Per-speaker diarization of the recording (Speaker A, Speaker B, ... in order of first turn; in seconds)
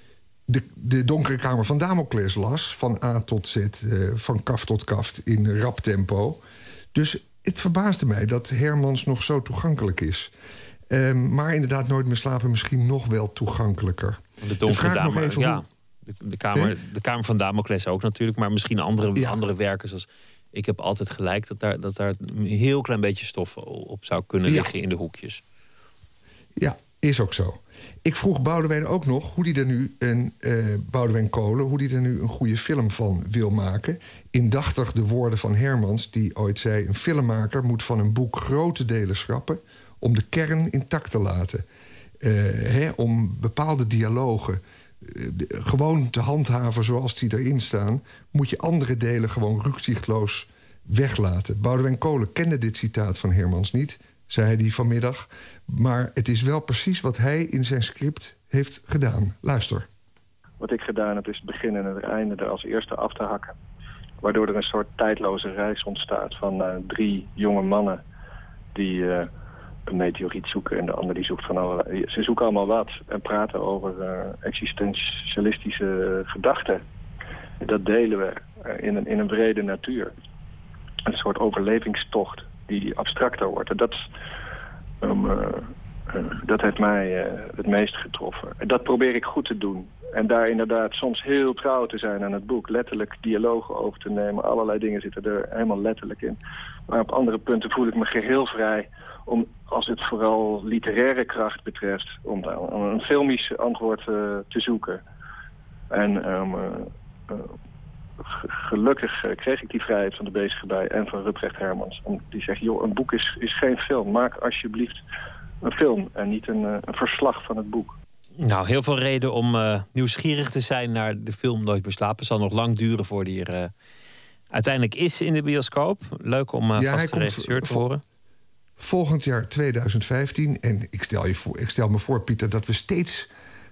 Speaker A: 0.5-6.4, 6.9-10.3, 10.9-15.6, 19.1-19.4, 24.4-24.7, 26.6-41.6, 42.2-59.9, 126.7-127.9, 128.8-133.3
Speaker B: 14.4-25.4, 118.4-123.7, 124.5-128.0
Speaker C: 60.6-63.5, 64.2-68.0, 68.7-69.3, 69.9-76.8, 77.6-80.1, 81.0-84.0, 85.0-96.4, 96.9-105.0, 105.9-107.5, 108.2-115.0, 115.6-118.0